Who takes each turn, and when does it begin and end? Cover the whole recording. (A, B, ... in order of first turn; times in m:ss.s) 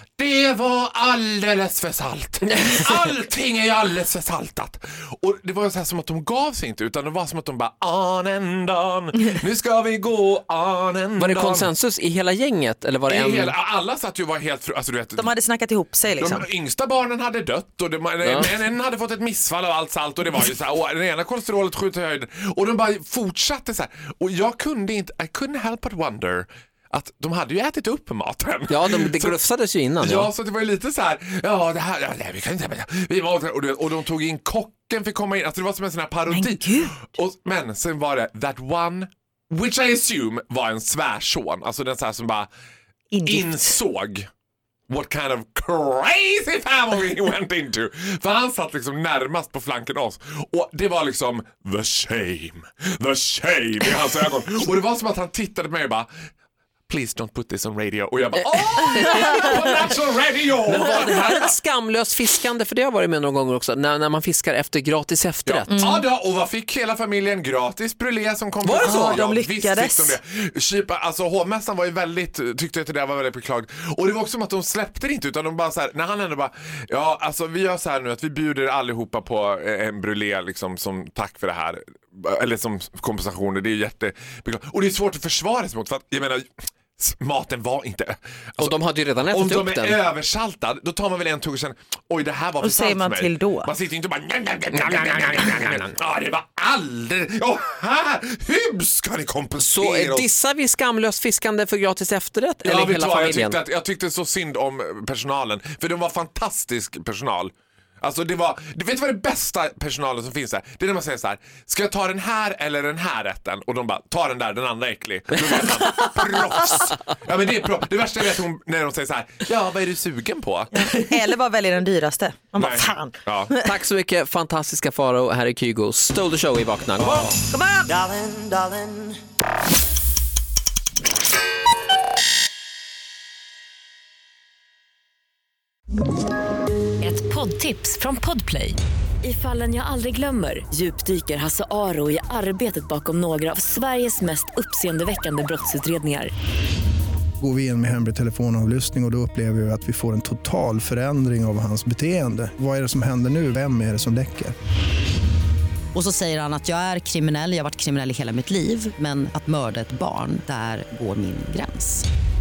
0:00.2-0:11.7 A
0:02.5-0:03.1 B
0:11.2-0:13.6 B
0:13.1-0:15.3 A
0:15.2-0:16.5 C
0:16.2-0:29.4 A
0:18.2-0:18.5 B
0:28.7-0:30.3 B
0:30.0-0:42.5 A
0:36.3-0:37.0 C
0:43.1-0:43.8 C
0:43.3-0:44.3 A
0:44.9-0:56.1 A
0:56.9-1:01.5 A
0:58.6-0:59.9 B
1:00.7-1:05.9 B
1:05.5-1:40.3 A
1:05.7-1:06.0 C
1:08.6-1:09.2 B
1:08.8-1:10.2 C
1:28.6-1:30.0 B
1:32.6-1:33.7 C
1:34.7-1:35.9 B
1:39.6-1:43.6 B
1:42.6-2:00.9 A
1:55.5-1:56.0 B
2:00.7-2:03.2 C
2:02.6-2:03.5 A
2:03.6-2:07.3 B
2:07.0-2:07.4 A
2:07.5-2:09.0 C
2:17.0-2:26.3 D
2:27.4-2:34.6 E
2:35.9-2:42.1 F